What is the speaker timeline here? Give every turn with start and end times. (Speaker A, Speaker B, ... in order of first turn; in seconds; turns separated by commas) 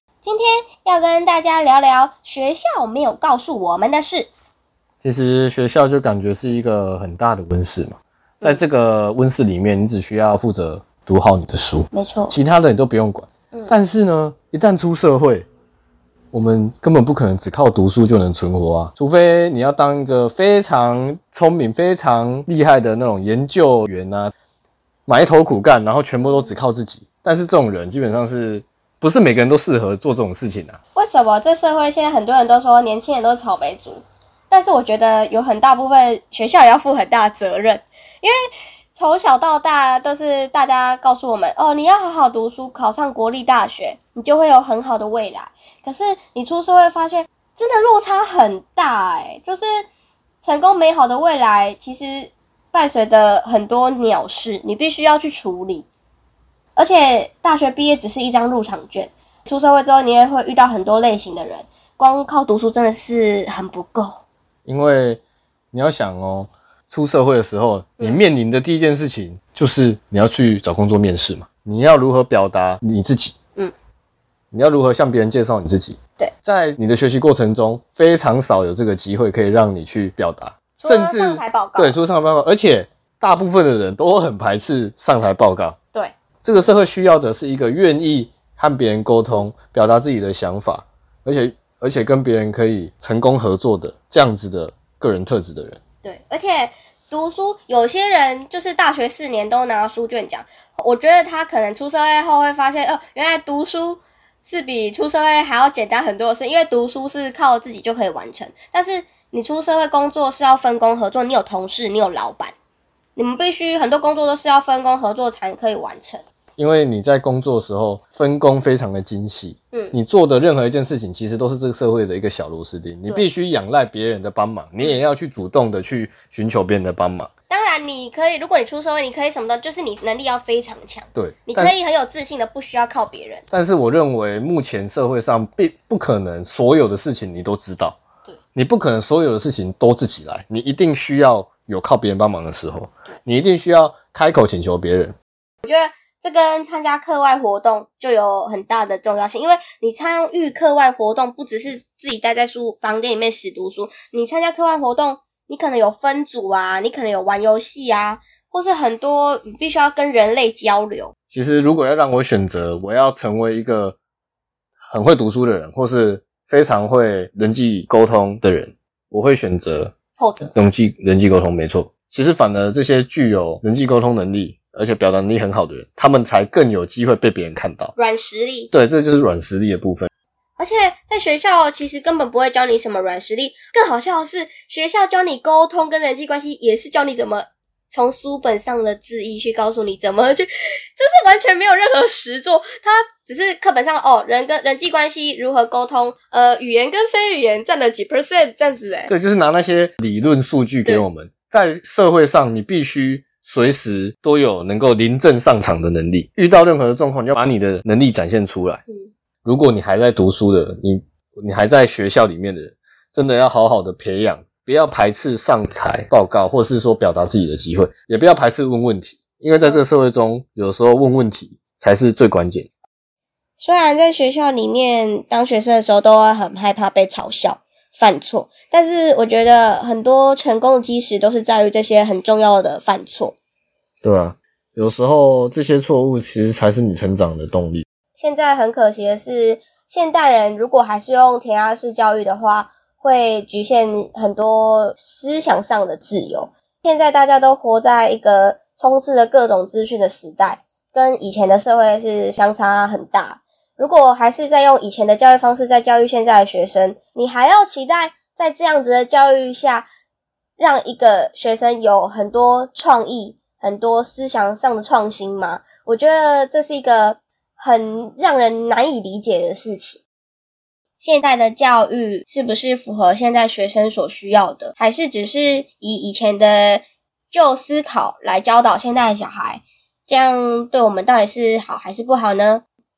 Speaker A: 0.2-4.3, Speaker B: 5.0-15.5, Speaker A: 11.9-12.3, Speaker B: 16.3-24.3, Speaker B: 25.1-30.8, Speaker A: 26.2-26.5, Speaker A: 30.9-38.4, Speaker A: 39.0-49.9, Speaker A: 50.4-55.9, Speaker A: 56.8-64.2, Speaker B: 64.7-73.4, Speaker B: 74.5-85.8, Speaker A: 80.8-82.0, Speaker B: 86.4-95.8, Speaker A: 96.0-112.5, Speaker A: 113.2-116.2, Speaker B: 116.6-127.3, Speaker A: 127.5-133.4, Speaker B: 131.2-131.7, Speaker B: 133.5-138.0, Speaker B: 138.6-145.2, Speaker A: 145.6-161.1, Speaker B: 161.3-164.0, Speaker B: 164.8-169.9, Speaker A: 170.2-170.5, Speaker B: 170.6-177.9, Speaker A: 178.0-178.7, Speaker B: 178.7-180.1, Speaker A: 180.6-199.1, Speaker B: 199.1-208.8, Speaker B: 209.4-222.7, Speaker A: 223.6-233.4, Speaker B: 234.0-237.8, Speaker A: 238.2-259.9, Speaker A: 260.6-270.0, Speaker A: 271.0-282.6